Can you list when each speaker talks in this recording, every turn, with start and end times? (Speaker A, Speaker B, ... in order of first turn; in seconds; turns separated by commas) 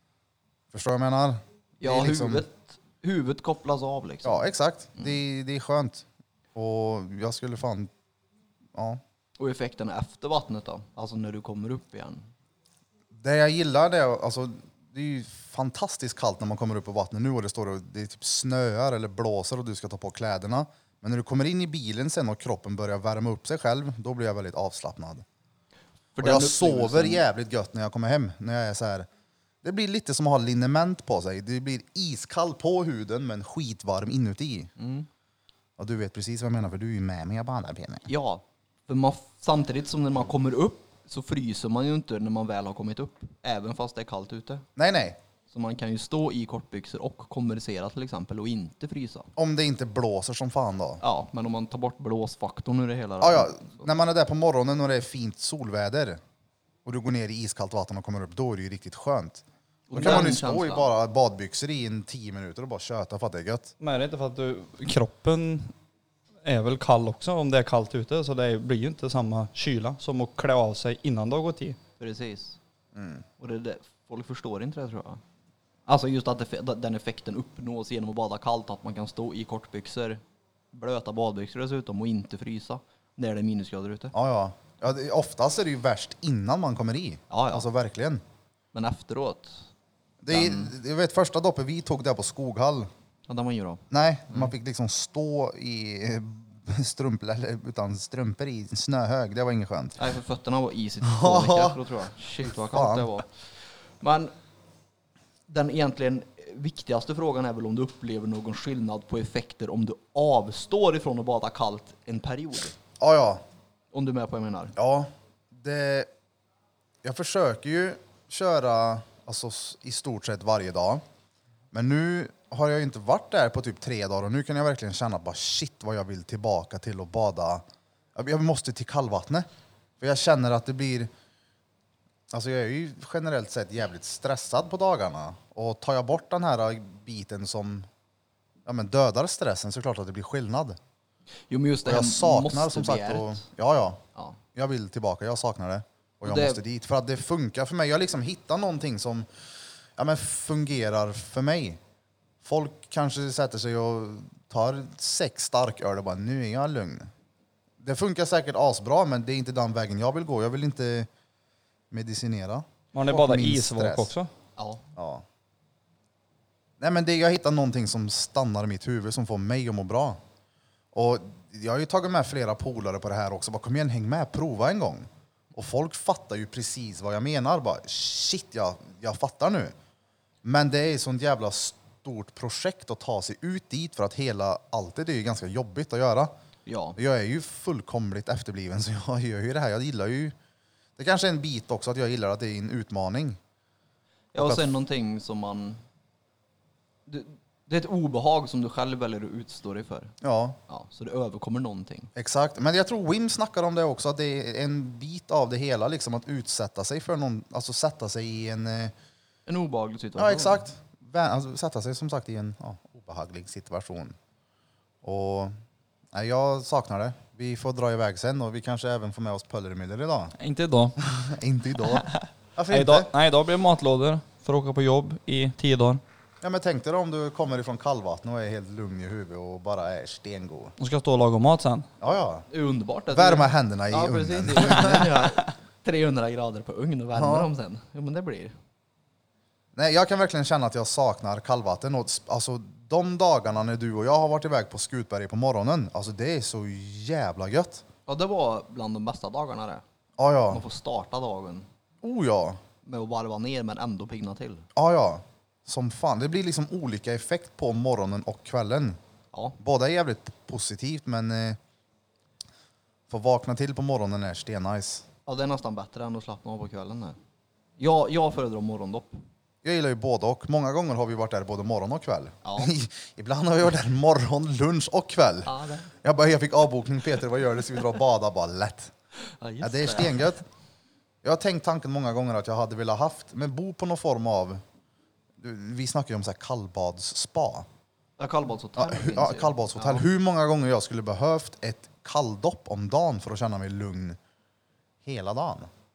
Speaker A: 0.7-2.4, Speaker B: 1.8-5.1, Speaker A: 4.2-7.9, Speaker A: 8.7-9.0, Speaker B: 9.4-12.3, Speaker A: 13.2-25.2, Speaker B: 26.1-27.2, Speaker A: 26.2-29.1, Speaker A: 29.6-34.7, Speaker B: 34.8-35.1, Speaker A: 35.8-38.1, Speaker B: 38.1-44.6, Speaker A: 44.8-45.2, Speaker B: 45.5-49.3, Speaker A: 49.4-51.0, Speaker B: 51.0-53.9, Speaker A: 53.2-56.2, Speaker A: 56.8-63.7, Speaker B: 59.9-60.9, Speaker C: 63.8-65.7, Speaker C: 66.4-71.8, Speaker B: 72.0-72.6, Speaker A: 72.9-73.2, Speaker B: 73.4-75.2, Speaker B: 75.9-80.2, Speaker B: 80.7-84.1, Speaker A: 84.1-88.2, Speaker B: 87.3-87.7, Speaker B: 88.7-89.7, Speaker A: 90.2-92.9, Speaker B: 90.3-90.7, Speaker B: 93.3-94.5, Speaker A: 93.9-100.0, Speaker B: 100.0-104.3, Speaker A: 101.0-101.8, Speaker A: 102.5-103.1, Speaker B: 105.5-112.8, Speaker A: 113.0-113.4, Speaker B: 113.9-114.7, Speaker A: 114.8-116.1, Speaker A: 117.0-121.0, Speaker A: 121.7-127.6, Speaker A: 128.1-129.4, Speaker A: 130.0-131.1, Speaker A: 132.3-137.9, Speaker A: 138.7-140.8, Speaker B: 141.5-143.4, Speaker A: 141.8-144.0, Speaker A: 144.5-149.3, Speaker B: 146.2-146.6, Speaker A: 150.0-151.8, Speaker A: 152.4-157.1, Speaker A: 157.8-161.1, Speaker A: 161.9-164.1, Speaker C: 162.9-164.3, Speaker B: 164.6-164.8, Speaker A: 164.9-165.2, Speaker A: 166.8-170.2, Speaker A: 170.9-179.7, Speaker A: 180.4-186.3, Speaker B: 186.7-187.0, Speaker A: 187.0-190.3, Speaker A: 191.0-193.4, Speaker B: 194.3-195.8, Speaker A: 194.3-194.7, Speaker B: 197.1-200.1, Speaker A: 200.2-200.6, Speaker B: 200.7-202.1, Speaker A: 202.2-208.9, Speaker B: 209.5-210.6, Speaker A: 210.2-214.2, Speaker A: 215.0-215.5, Speaker A: 216.1-220.3, Speaker C: 220.4-221.0, Speaker A: 221.0-223.1, Speaker C: 222.7-226.0, Speaker A: 226.4-230.7, Speaker C: 230.8-231.9, Speaker A: 232.0-232.5, Speaker B: 232.5-238.5, Speaker A: 233.1-235.2, Speaker A: 237.2-237.5, Speaker A: 239.7-247.8, Speaker B: 248.1-249.8, Speaker A: 250.2-250.6, Speaker B: 250.5-251.7, Speaker A: 252.0-252.6, Speaker B: 252.8-254.7, Speaker A: 254.7-259.0, Speaker B: 259.3-259.6, Speaker A: 259.6-261.6, Speaker A: 263.1-265.1, Speaker B: 265.2-267.2, Speaker B: 267.8-269.2, Speaker A: 269.6-278.9, Speaker B: 272.4-272.7, Speaker B: 275.4-275.9, Speaker B: 279.2-280.3, Speaker A: 279.6-280.4, Speaker A: 281.2-284.6, Speaker A: 285.4-287.6, Speaker B: 288.2-290.0, Speaker A: 288.8-294.2, Speaker A: 295.0-295.7